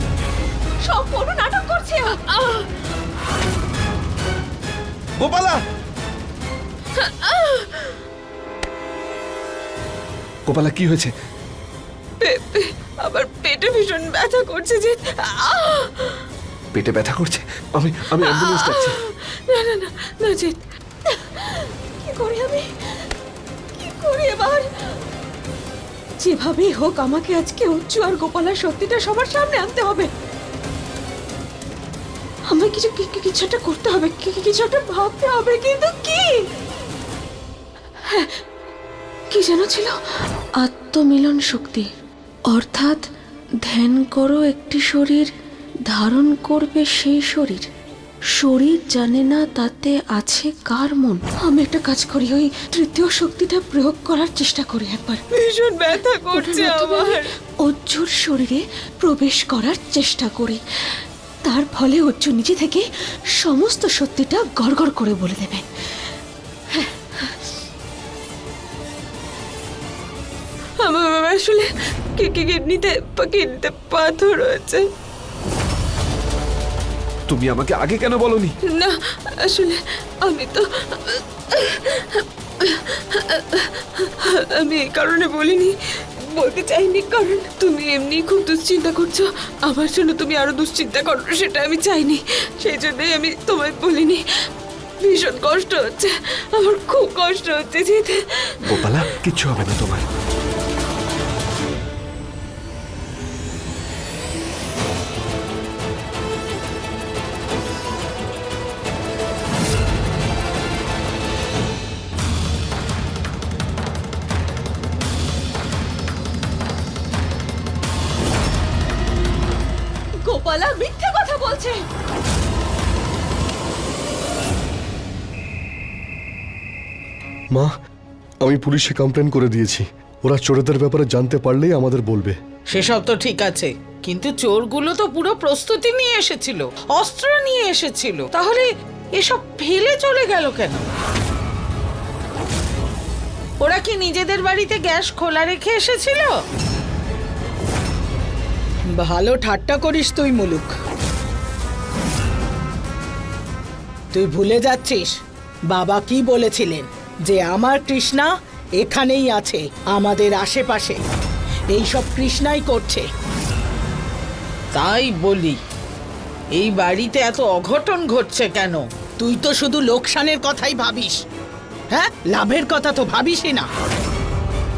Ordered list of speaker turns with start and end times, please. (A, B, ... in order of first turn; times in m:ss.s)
0:00.8-0:02.7 A
0:05.2-0:05.6 B
0:07.0-0:08.0 C
0:10.5-0:11.1 B
0:12.2-0:16.2 C
0:16.8-0:19.0 B
0:18.2-0:20.6 C
0:21.1-0:22.7 A
0:23.8-0:24.7 A
0:26.2-0:30.1 A
0:32.5-0:36.4 A
0:38.0-0:38.4 A
0:39.3-0:41.9 A
0:42.5-0:43.1 A
0:43.6-0:45.3 A
0:45.9-0:47.7 A
0:48.4-0:55.2 A
0:55.3-0:57.3 C
0:56.3-1:00.6 A
1:01.4-1:02.8 A
1:03.4-1:05.6 A
1:06.7-1:07.4 A
1:10.8-1:14.8 C
1:17.3-1:18.6 B
1:18.7-1:25.7 C
1:26.3-1:34.2 C
1:35.0-1:39.1 C
1:38.6-1:40.1 B
2:00.2-2:01.8 A
2:08.4-2:12.4 D
2:12.7-2:20.9 E
2:23.6-2:26.4 E
2:29.0-2:30.7 F
2:34.1-2:35.1 F
2:35.7-2:38.3 F
2:38.8-2:41.0 F
2:41.7-2:43.0 F
2:44.7-2:45.6 E
2:46.6-2:48.8 E
2:49.2-2:51.2 F
2:51.9-2:53.7 F